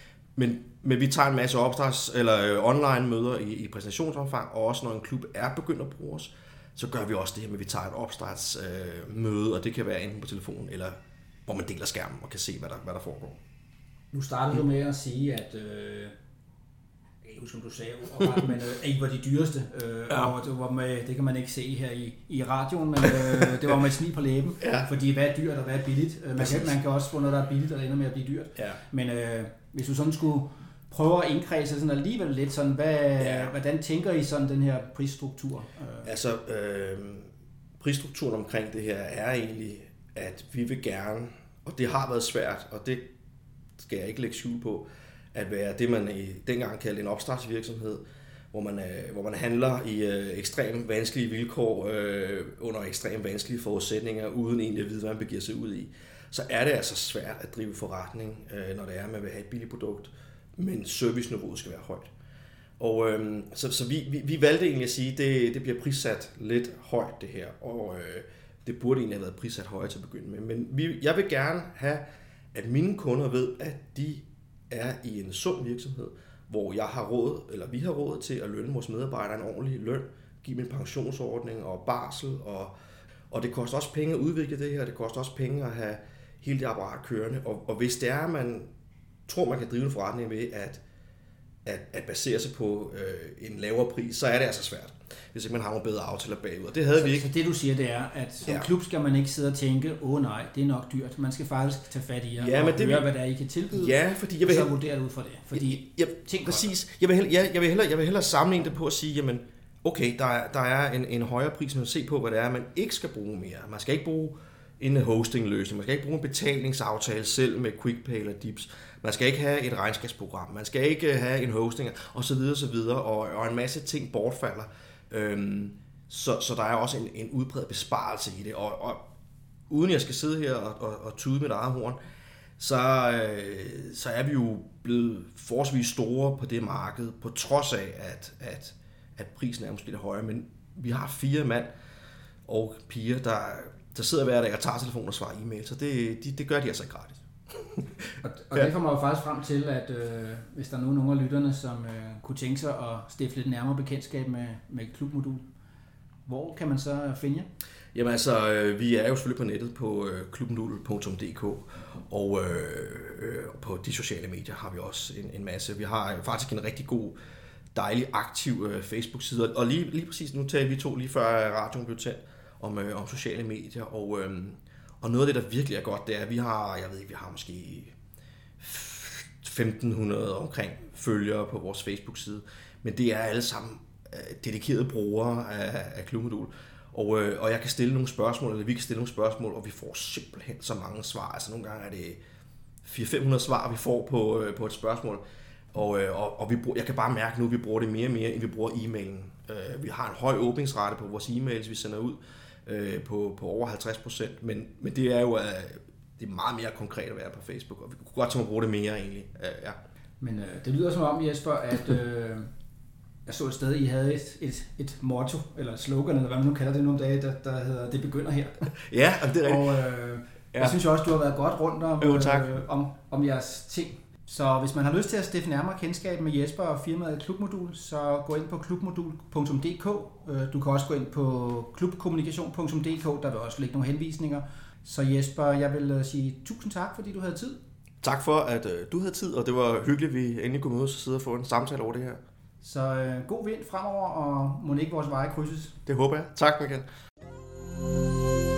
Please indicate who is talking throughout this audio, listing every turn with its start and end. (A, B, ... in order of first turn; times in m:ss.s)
0:00.4-0:13.4 A
0:14.1-0:16.1 B
0:17.2-0:36.1 B
0:20.1-0:20.3 A
0:24.6-0:24.9 A
0:26.4-0:26.8 A
0:33.2-0:33.5 A
0:36.0-0:37.3 A
0:37.8-0:43.1 A
0:43.8-1:02.1 A
1:02.8-1:22.7 A
1:23.3-1:28.7 A
1:29.3-1:30.8 A
1:31.6-1:37.3 A
1:36.9-1:46.7 B
1:42.4-1:43.1 A
1:43.7-1:44.7 A
1:45.5-2:09.0 A
2:09.7-2:12.0 A
2:12.6-2:21.7 A
2:22.5-2:27.2 A
2:28.2-2:35.4 B
2:36.2-2:37.5 B
2:37.9-2:47.2 A
2:47.7-2:57.9 A
2:58.6-3:12.2 A
3:12.8-3:15.2 A
3:15.7-3:29.8 A
3:30.2-3:32.5 B
3:33.2-3:38.7 B
3:38.9-3:39.8 A
3:39.4-3:57.6 B
3:40.5-3:40.8 A
3:42.0-3:42.5 A
3:58.0-4:02.2 A
4:02.6-4:05.8 B
4:05.8-4:06.8 A